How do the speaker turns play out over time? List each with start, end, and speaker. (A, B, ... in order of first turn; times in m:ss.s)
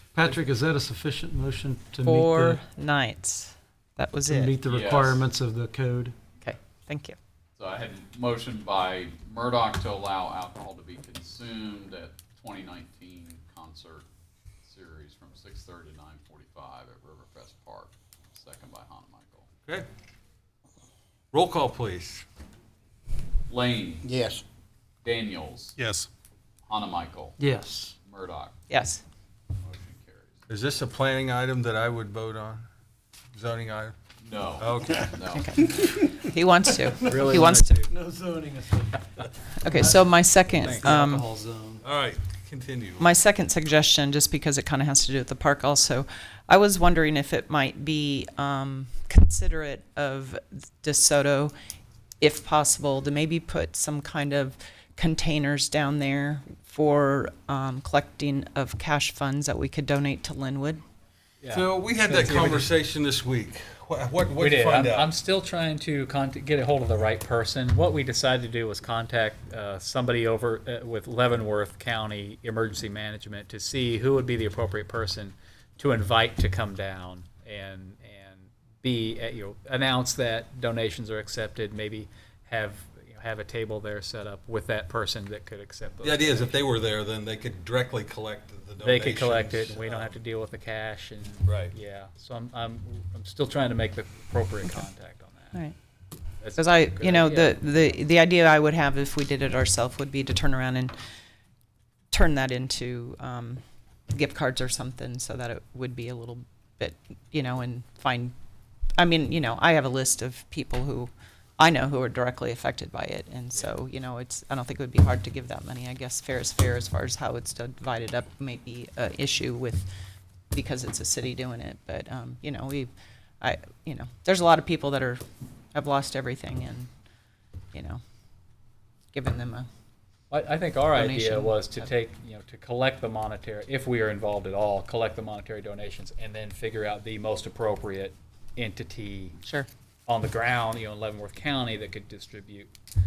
0:00.1-0:02.6 A
0:02.0-0:04.5 B
0:04.2-0:06.2 A
0:04.6-0:05.2 C
0:06.4-0:07.2 B
0:07.6-0:14.1 C
0:14.6-0:19.5 C
0:21.3-0:22.2 D
0:23.5-0:24.3 C
0:25.0-0:25.7 C
0:25.8-0:26.1 D
0:26.7-0:27.4 C
0:27.4-0:27.9 A
0:28.0-0:28.5 C
0:28.7-0:29.0 B
0:29.6-0:30.4 C
0:30.5-0:32.6 D
0:33.3-0:33.9 D
0:34.2-0:35.5 C
0:34.6-0:35.1 D
0:35.3-0:37.9 B
0:37.1-0:37.8 E
0:37.2-0:41.8 A
0:39.6-0:41.2 B
0:40.6-0:40.9 E
0:41.8-0:43.1 D
0:43.0-0:51.5 B
0:52.2-1:00.8 B
1:01.4-1:02.7 E
1:01.5-1:05.1 D
1:04.4-1:26.6 E
1:26.0-1:30.2 D
1:28.8-1:35.6 E
1:31.4-1:31.7 D
1:36.4-1:38.0 E
1:36.6-1:40.9 B
1:42.1-1:48.3 B
1:49.0-1:59.9 B
2:00.5-2:02.9 B
2:03.4-2:05.2 B
2:05.7-2:06.9 B
2:07.7-2:08.0 B
2:09.1-2:09.7 B
2:10.3-2:19.4 E
2:10.9-2:11.9 B
2:20.1-2:22.7 E